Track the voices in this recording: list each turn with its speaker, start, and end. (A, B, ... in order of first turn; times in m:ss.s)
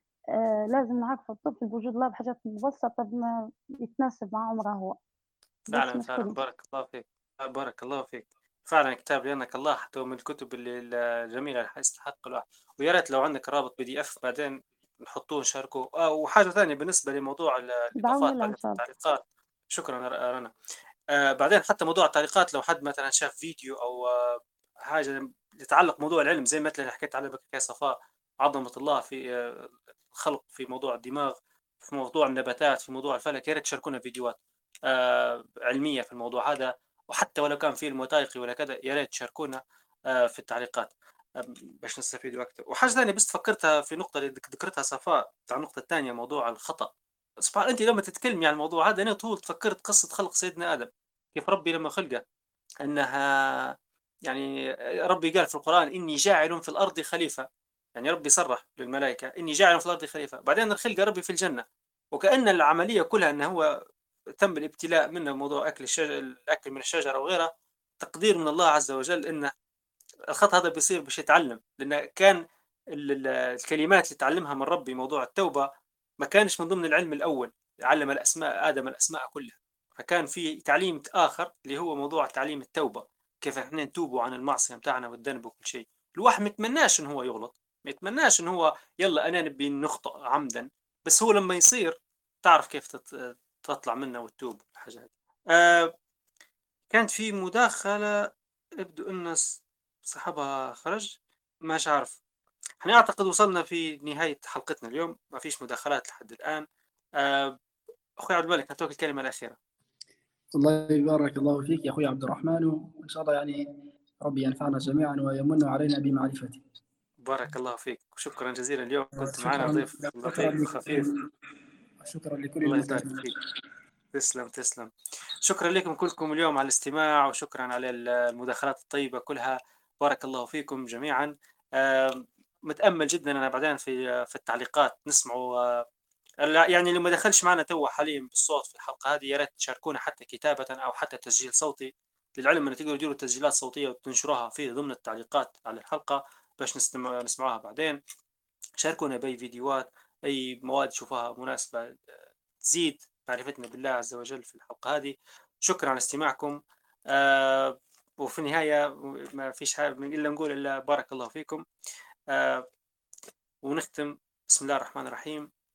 0:00.4-0:05.0 A
0:05.7-0:19.2 B
0:05.7-0:06.4 A
0:18.0-0:18.8 A
0:19.7-0:20.5 B
0:21.2-0:34.4 B
0:34.9-0:39.6 B
0:40.1-0:46.9 B
0:47.4-0:52.2 B
0:52.8-0:53.7 B
0:55.1-1:03.6 B
1:04.4-1:07.5 B
1:08.0-1:09.5 B
1:10.3-1:12.4 B
1:12.9-1:15.7 B
1:16.2-1:35.9 B
1:36.9-1:38.1 B
1:38.8-1:41.1 B
1:41.6-1:42.2 B
1:42.8-1:46.6 B
1:47.2-1:47.6 B
1:48.2-1:49.6 B
1:50.5-1:53.6 C
1:54.2-1:56.6 C
1:57.2-2:01.1 B
1:59.2-2:01.1 C
2:02.0-2:03.2 C
2:02.6-2:03.3 B
2:04.1-2:04.9 B
2:05.4-2:15.8 B
2:16.4-2:28.0 B
2:28.8-2:32.2 B
2:32.7-2:36.6 B
2:37.1-2:41.6 B
2:42.3-2:42.6 B
2:43.6-2:45.5 B